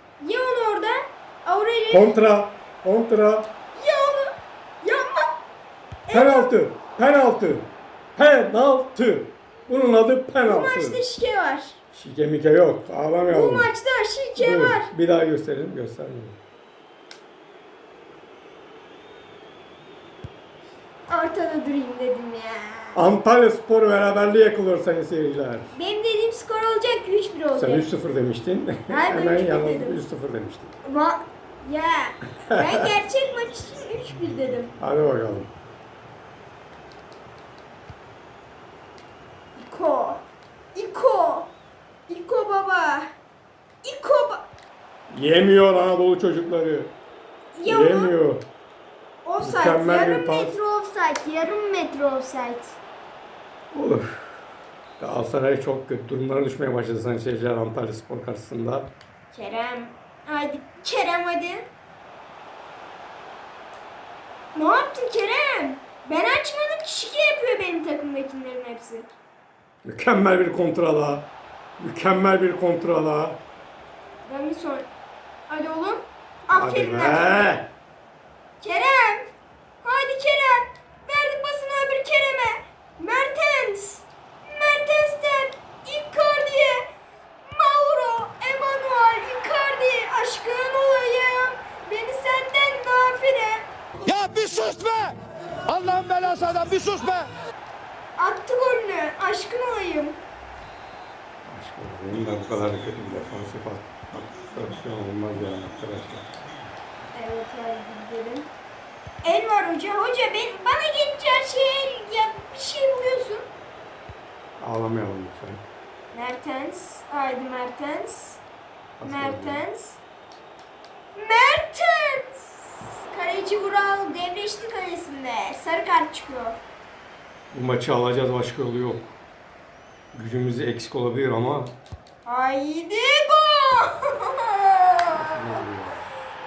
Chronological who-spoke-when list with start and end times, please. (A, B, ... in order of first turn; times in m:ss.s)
0:00.2-0:02.2 A
0:01.9-0:03.5 B
0:03.8-0:05.4 A
0:06.1-0:06.5 A
0:06.1-0:11.0 B
0:10.4-0:11.8 A
0:11.9-0:13.7 B
0:13.3-0:14.9 A
0:14.4-0:16.4 B
0:21.1-0:23.0 A
0:23.0-0:25.8 B
0:25.7-0:27.9 A
0:27.6-0:30.7 B
0:28.9-0:30.0 A
0:30.8-0:34.7 A
0:34.8-0:35.5 B
0:39.6-0:41.5 A
0:42.1-0:43.1 A
0:43.8-0:44.5 A
0:45.1-0:47.0 B
0:47.5-0:48.2 A
0:47.7-0:48.4 B
0:49.2-0:52.8 A
0:49.4-0:50.6 B
0:53.7-0:54.4 B
0:55.0-0:58.9 B
0:59.3-1:01.7 A
1:04.5-1:09.1 A
1:09.8-1:13.4 B
1:14.2-1:14.9 A
1:15.5-1:17.3 A
1:16.5-1:17.7 B
1:18.6-1:19.3 A
1:19.8-1:26.8 A
1:27.4-1:33.7 A
1:34.0-1:37.3 C
1:38.2-1:40.2 A
1:41.4-1:46.3 B
1:47.1-1:48.5 A
1:49.2-1:53.4 A
1:54.6-1:55.6 B
1:56.1-1:58.4 A
1:59.0-1:59.6 B
1:59.0-2:00.0 A
2:01.2-2:06.6 A
2:07.5-2:09.2 B
2:10.1-2:11.8 B
2:12.2-2:15.8 A
2:15.1-2:16.1 B